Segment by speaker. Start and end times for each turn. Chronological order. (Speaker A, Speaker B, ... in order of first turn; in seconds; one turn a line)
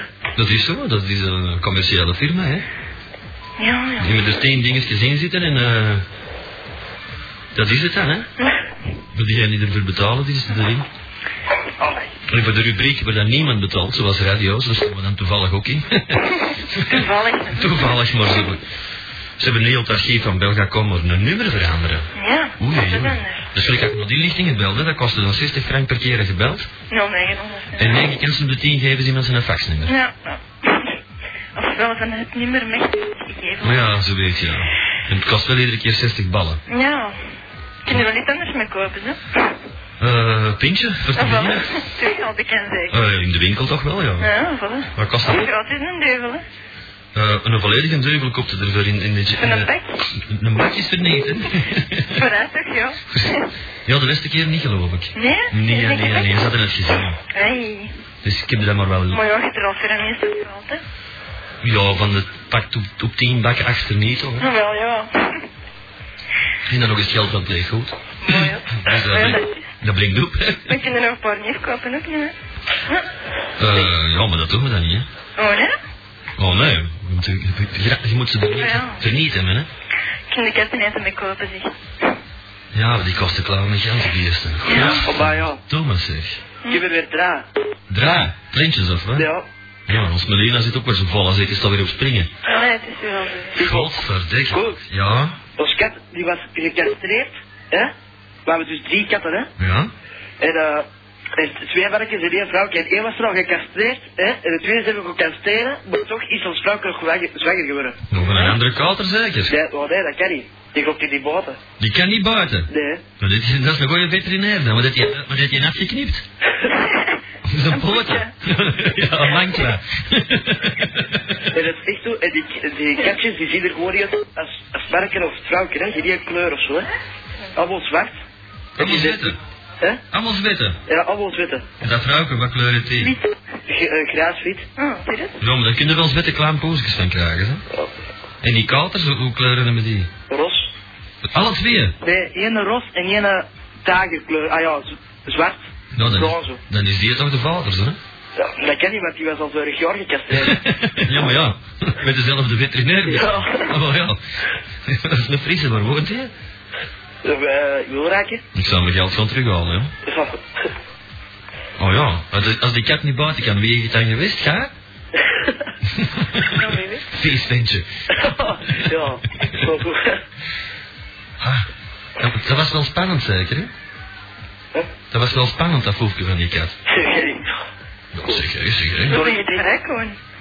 Speaker A: 0.3-2.7
Speaker B: 3.6-4.2
Speaker A: 4.0-6.0
Speaker A: 7.5-8.3
Speaker A: 9.1-10.9
Speaker C: 11.8-12.1
Speaker A: 12.3-18.6
Speaker B: 16.8-18.0
Speaker A: 19.4-26.7
Speaker B: 22.1-23.4
Speaker B: 26.9-27.9
Speaker A: 27.8-29.9
Speaker B: 29.8-31.0
Speaker B: 31.5-33.9
Speaker A: 33.6-36.6
Speaker B: 36.7-37.2
Speaker B: 37.8-39.5
Speaker A: 40.0-41.8
Speaker B: 41.1-43.0
Speaker A: 42.9-44.3
Speaker B: 44.2-46.5
Speaker A: 44.9-45.5
Speaker A: 47.1-52.3
Speaker B: 49.4-50.0
Speaker B: 52.1-53.5
Speaker A: 53.1-57.2
Speaker B: 55.1-56.4
Speaker B: 57.3-58.0
Speaker A: 58.2-59.2
Speaker B: 59.1-60.8
Speaker A: 61.6-64.5
Speaker B: 64.4-65.4
Speaker A: 66.7-70.8
Speaker B: 68.2-69.7
Speaker B: 70.7-72.3
Speaker A: 73.6-75.1
Speaker B: 75.4-75.7
Speaker A: 76.4-79.7
Speaker B: 78.5-79.0
Speaker B: 80.3-81.8
Speaker A: 82.7-86.4
Speaker B: 84.7-85.0
Speaker C: 84.7-85.6
Speaker C: 86.7-87.5
Speaker A: 87.9-89.3
Speaker C: 89.1-89.5
Speaker A: 89.9-92.3
Speaker B: 92.4-93.7
Speaker C: 93.5-93.9
Speaker A: 93.6-95.4
Speaker C: 94.5-94.8
Speaker C: 95.6-97.9
Speaker C: 98.5-99.5
Speaker A: 99.6-99.9
Speaker C: 100.4-108.0
Speaker A: 108.1-109.5
Speaker B: 108.3-108.6
Speaker C: 109.5-111.6
Speaker A: 111.8-116.2
Speaker C: 112.7-113.0
Speaker B: 116.8-117.2
Speaker A: 117.4-121.4
Speaker B: 117.7-118.3
Speaker C: 121.5-126.9
Speaker C: 127.5-128.2
Speaker A: 128.8-129.4
Speaker C: 128.8-130.0
Speaker A: 130.1-130.8
Speaker C: 130.9-131.7
Speaker A: 131.8-133.2
Speaker B: 133.0-133.3
Speaker C: 133.7-134.7
Speaker B: 134.8-135.4
Speaker A: 135.4-137.6
Speaker A: 138.4-140.1
Speaker C: 140.3-140.7
Speaker A: 141.3-141.9
Speaker C: 142.0-146.6
Speaker A: 145.9-148.0
Speaker C: 148.3-150.6
Speaker A: 150.3-154.2
Speaker C: 153.1-153.7
Speaker A: 154.8-156.3
Speaker C: 157.2-158.4
Speaker A: 158.5-159.9
Speaker C: 160.0-160.7
Speaker A: 161.8-164.7
Speaker C: 165.2-165.7
Speaker A: 165.9-169.0
Speaker C: 166.5-167.0
Speaker C: 168.1-170.2
Speaker A: 171.4-173.7
Speaker A: 175.1-176.8
Speaker C: 176.9-177.5
Speaker A: 178.1-179.2
Speaker C: 179.1-179.7
Speaker B: 179.1-180.2